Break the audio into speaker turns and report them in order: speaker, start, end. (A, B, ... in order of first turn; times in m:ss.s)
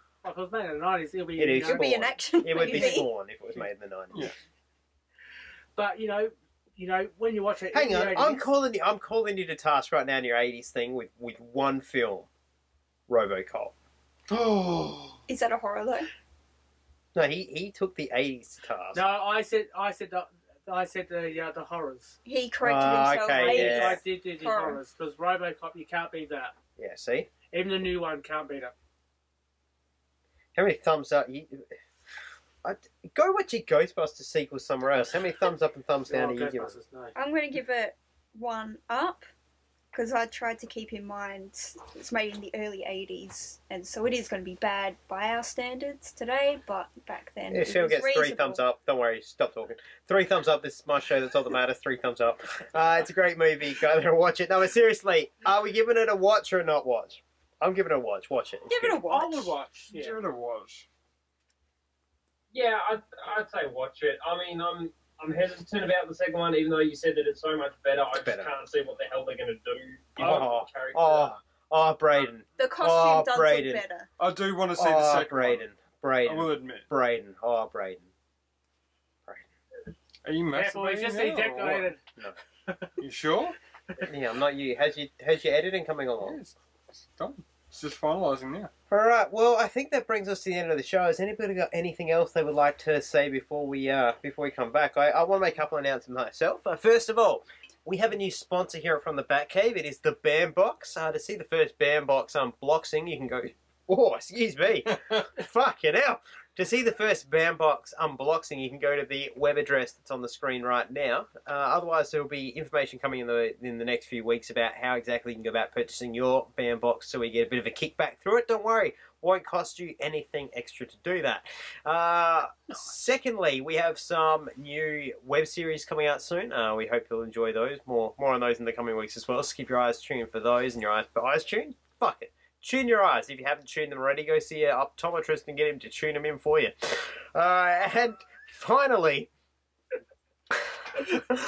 0:00.2-0:02.0 A
0:01.4-0:04.2 B
0:01.6-0:03.1 C
0:02.5-0:03.0 A
0:05.7-0:08.5 A
0:07.7-0:12.3 B
0:13.1-0:13.7 B
0:14.3-0:15.2 D
0:15.3-0:16.1 C
0:17.1-0:19.0 B
0:18.9-0:22.2 A
0:22.2-0:24.8 C
0:22.6-0:24.0 B
0:23.3-0:26.5 A
0:26.8-0:27.3 B
0:27.5-0:28.7 A
0:30.5-0:31.8 B
0:32.6-0:36.8 B
0:36.1-0:37.2 A
0:37.2-0:39.3 C
0:39.9-0:48.6 C
0:47.5-0:59.0 B
0:58.7-0:59.5 C
0:59.1-1:00.2 A
0:59.9-1:00.8 D
1:02.5-1:11.3 E
1:08.1-1:08.5 B
1:10.2-1:13.8 B
1:12.6-1:14.1 C
1:14.2-1:15.6 D
1:14.8-1:18.1 B
1:16.2-1:16.9 D
1:20.2-1:21.9 D
1:20.5-1:22.0 A
1:22.7-1:23.0 A
1:23.0-1:23.6 D
1:24.0-1:26.4 B
1:26.2-1:28.7 D
1:28.9-2:19.3 B
1:44.9-1:45.3 D